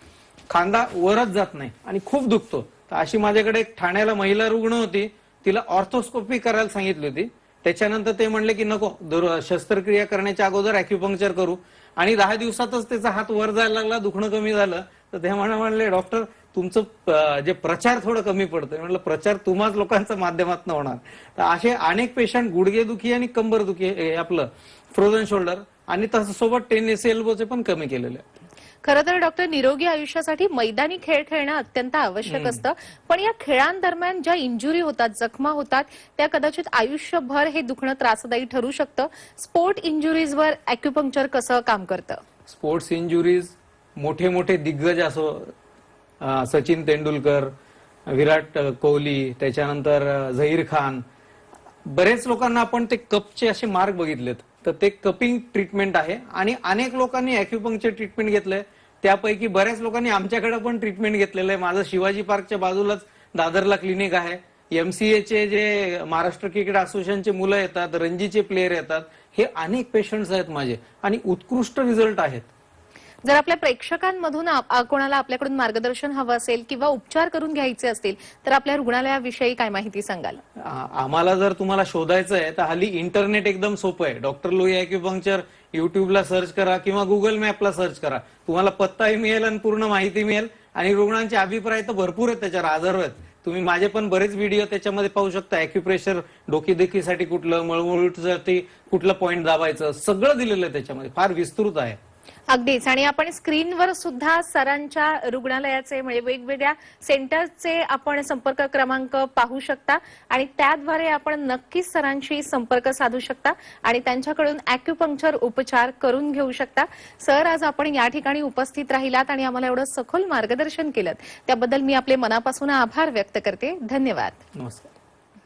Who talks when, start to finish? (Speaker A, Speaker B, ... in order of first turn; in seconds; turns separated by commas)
Speaker A: 0.5-28.2, Speaker B: 28.8-42.2, Speaker A: 32.3-32.6, Speaker A: 42.5-45.5, Speaker A: 46.2-47.5, Speaker A: 48.1-51.0, Speaker A: 51.9-72.5, Speaker B: 73.2-80.4, Speaker A: 80.6-102.0, Speaker B: 102.5-124.4, Speaker A: 124.6-124.9